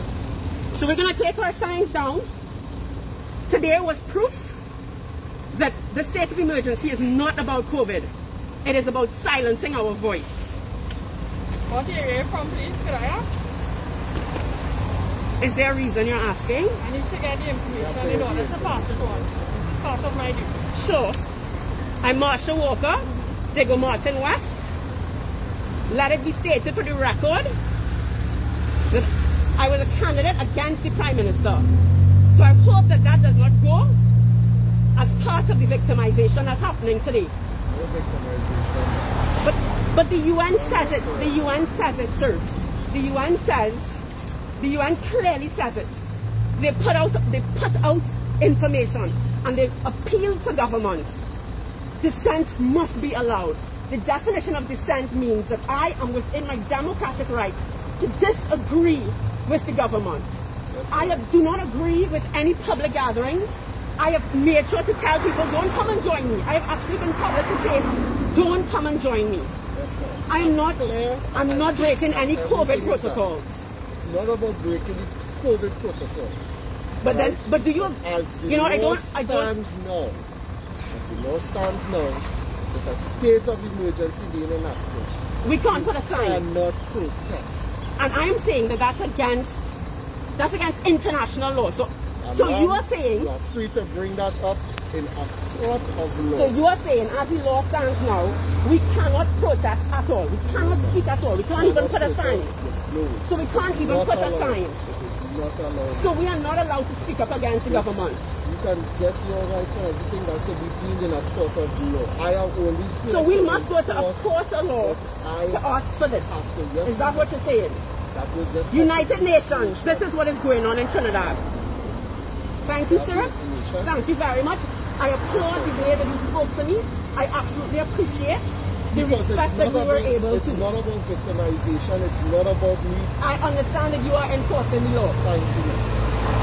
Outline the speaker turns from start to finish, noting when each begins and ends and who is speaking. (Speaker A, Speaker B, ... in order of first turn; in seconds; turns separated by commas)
Speaker A: 0.7-2.2, Speaker A: 3.5-4.6, Speaker A: 5.5-8.1, Speaker A: 8.6-10.5, Speaker B: 11.7-13.3, Speaker A: 15.4-16.8, Speaker B: 16.8-20.5, Speaker C: 17.7-19.6, Speaker A: 20.7-21.2, Speaker A: 22.0-24.7, Speaker A: 25.9-27.5, Speaker A: 28.9-31.7, Speaker A: 32.3-34.0, Speaker A: 35.0-37.3, Speaker C: 37.5-39.2, Speaker A: 39.4-43.9, Speaker C: 40.5-41.7, Speaker A: 44.6-46.0, Speaker A: 46.5-51.2, Speaker A: 52.0-60.4, Speaker C: 60.7-61.2, Speaker A: 60.9-69.5, Speaker C: 69.7-73.2, Speaker A: 70.3-73.6, Speaker C: 73.9-80.2, Speaker A: 77.0-79.5, Speaker C: 80.9-85.1, Speaker A: 85.4-86.4, Speaker C: 85.7-87.8, Speaker A: 88.0-89.7, Speaker A: 90.3-93.3, Speaker C: 92.2-96.5, Speaker A: 96.3-102.5, Speaker C: 100.4-106.2, Speaker A: 103.2-104.8, Speaker A: 106.0-108.3, Speaker C: 107.7-115.7, Speaker A: 113.0-117.8, Speaker C: 116.2-117.3, Speaker C: 118.1-120.1, Speaker A: 118.7-121.4, Speaker A: 122.6-130.7, Speaker C: 122.9-123.9, Speaker C: 125.3-126.0, Speaker C: 128.9-133.1, Speaker A: 133.2-135.2, Speaker C: 135.2-135.9